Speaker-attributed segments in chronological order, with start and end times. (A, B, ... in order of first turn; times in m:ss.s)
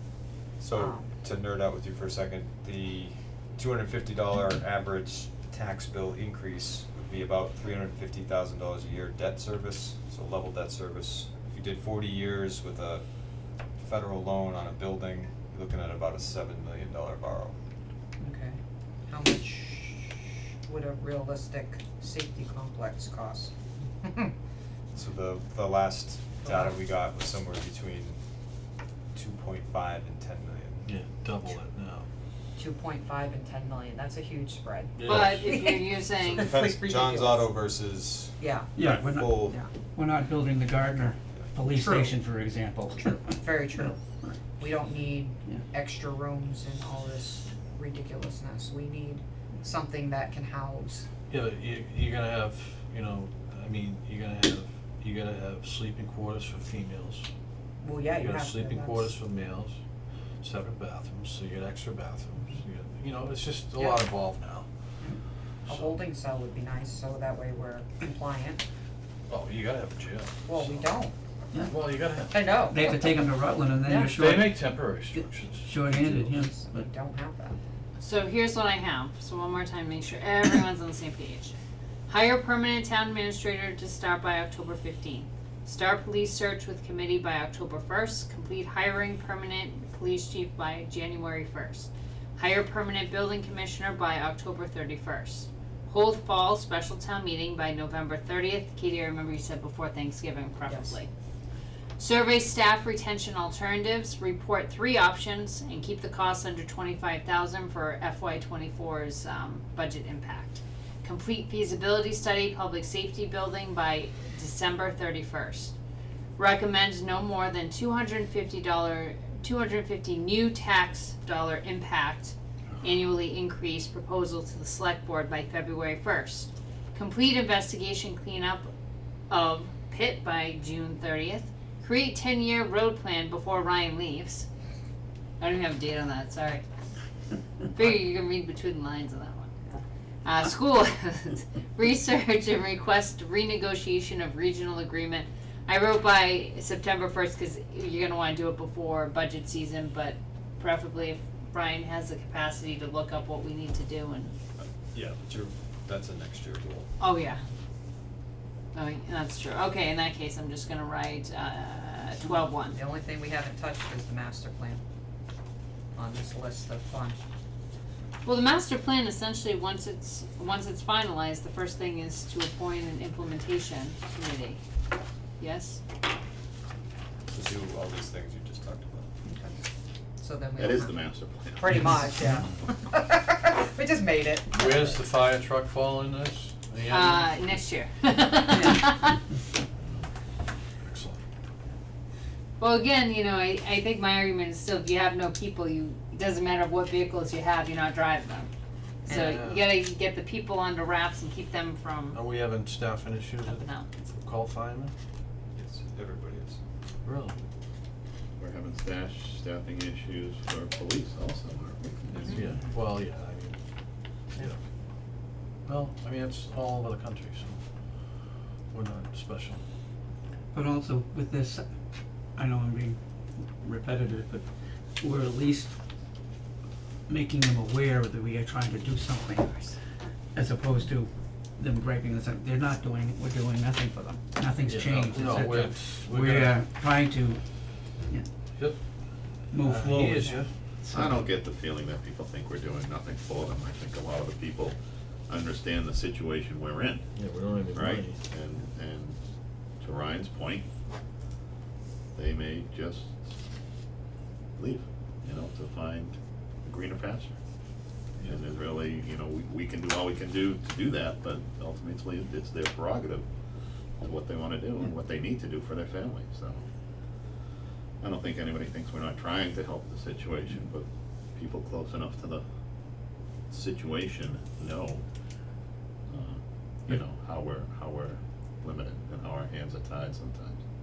0:00.6-0:13.1 A
0:00.7-0:01.2 B
0:13.8-0:17.6 A
0:18.2-0:24.3 B
0:25.0-0:28.2 A
0:26.4-0:26.8 B
0:29.1-0:30.9 A
0:30.8-0:32.1 C
0:32.6-0:37.5 B
0:35.0-0:35.6 C
0:35.0-0:36.5 D
0:36.2-0:39.6 A
0:38.4-0:38.7 B
0:38.8-0:43.3 E
0:41.8-0:42.1 B
0:43.1-0:44.0 B
0:44.6-0:51.1 B
0:51.3-0:57.3 C
0:57.8-0:59.1 B
0:58.2-0:59.8 C
1:00.4-1:04.6 C
1:03.8-1:04.1 B
1:05.7-1:08.6 B
1:09.3-1:10.9 C
1:10.5-1:11.2 B
1:11.7-1:12.5 C
1:12.3-1:12.9 B
1:12.6-1:14.6 E
1:13.8-1:14.1 B
1:14.0-1:15.8 C
1:15.2-1:16.9 E
1:15.9-1:17.6 B
1:18.0-1:21.6 D
1:22.1-1:41.1 D
1:42.0-1:55.7 D
1:56.4-2:08.7 D
2:09.3-2:14.5 D
2:15.4-2:16.6 D
2:17.7-2:19.6 D
2:20.2-2:34.3 D
2:34.9-2:36.9 A
2:37.0-2:37.4 D
2:38.7-2:42.8 D
2:42.2-2:44.8 B
2:46.0-2:47.2 B
2:48.2-2:54.6 D
2:55.4-2:55.8 D
2:57.3-2:59.1 A
2:59.2-2:59.6 B
3:00.2-3:01.0 B
3:00.6-3:01.8 F
3:01.5-3:05.0 B
3:04.5-3:07.3 C
3:06.9-3:09.2 D
3:10.8-3:11.2 C
3:12.6-3:18.5 D
3:19.0-3:22.2 D
3:19.1-3:19.4 B
3:19.2-3:19.7 C
3:22.1-3:24.9 C
3:23.4-3:23.9 D
3:25.5-3:26.6 A
3:27.0-3:27.4 C
3:28.4-3:32.1 F
3:32.2-3:32.5 D
3:32.3-3:33.6 C
3:35.7-3:37.6 C
3:38.7-3:39.6 C
3:40.5-3:41.6 E
3:42.4-3:44.5 E
3:45.0-3:45.7 E
3:47.1-3:49.6 E
3:50.4-3:57.4 E
3:54.7-3:56.6 C
3:58.5-3:58.8 C
3:59.5-4:00.4 E
3:59.6-4:00.5 C
4:00.9-4:04.8 F
4:00.9-4:01.2 E
4:05.3-4:07.1 F
4:07.2-4:08.2 C
4:07.7-4:09.2 F
4:09.8-4:10.6 F
4:12.2-4:13.2 F
4:14.6-4:17.4 F
4:18.3-4:23.3 F
4:24.0-4:26.6 F
4:28.0-4:32.4 F
4:33.5-4:35.0 F
4:36.1-4:40.6 F